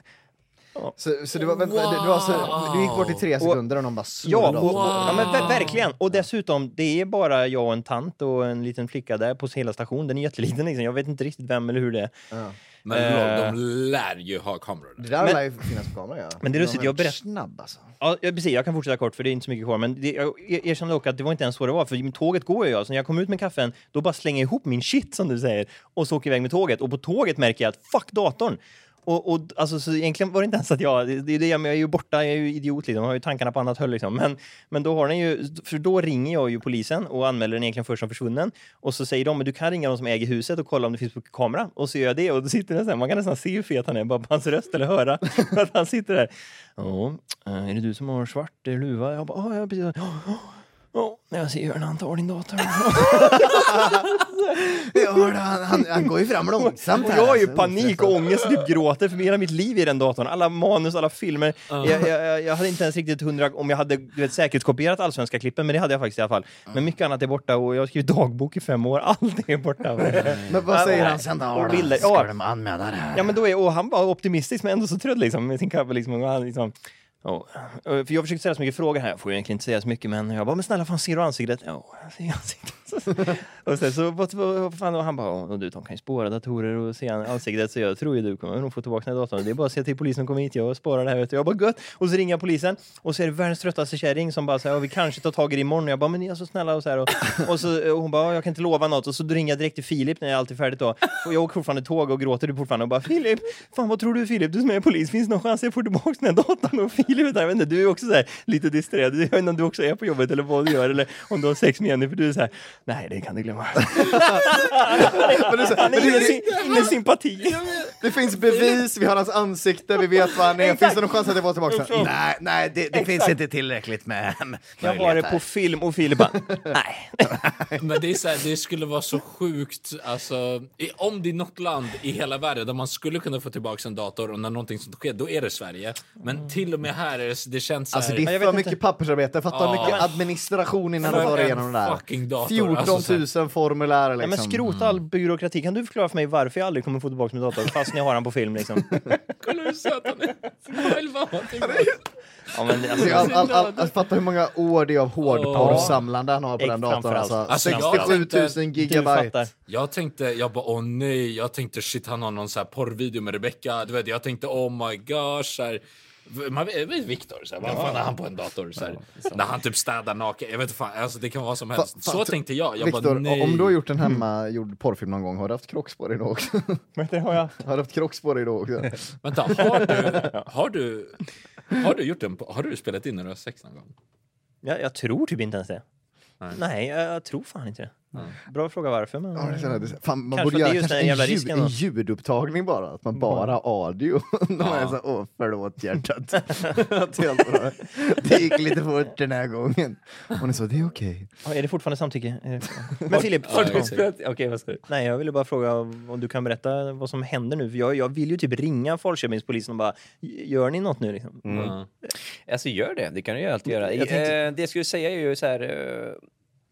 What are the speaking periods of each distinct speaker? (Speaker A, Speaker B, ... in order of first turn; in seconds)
Speaker A: 1.0-5.8, 15.0-17.9, 53.0-58.4, 70.5-73.4, 114.1-116.9, 118.0-125.5, 126.2-127.8, 137.9-144.7, 151.6-152.0, 152.9-159.4, 171.8-176.8, 177.6-180.2, 189.4-201.3
Speaker B: 1.4-3.2, 4.4-5.8, 12.9-15.4, 61.7-62.1, 115.8-118.8, 127.8-138.3, 139.5-140.2, 141.0-143.2, 144.7-145.0, 149.4-152.0, 152.8-153.9, 155.2-156.0, 157.5-158.6, 159.7-173.8, 179.2-183.9, 194.6-194.9, 203.4-204.1, 211.5-211.9
Speaker C: 4.2-12.1, 12.9-13.6, 16.4-17.2, 18.0-54.2, 56.6-72.3, 73.1-117.6, 120.6-121.0, 121.7-122.1, 122.9-123.3, 124.8-127.4, 138.2-138.8, 144.2-148.9, 152.5-153.5, 155.6-156.0, 156.6-158.2, 158.8-159.5, 167.7-168.0, 177.0-177.6, 184.6-185.8, 186.6-189.7, 190.3-191.7, 201.4-203.9, 204.9-211.7, 213.7-214.4
Speaker D: 203.1-204.8, 211.4-211.8, 212.4-216.2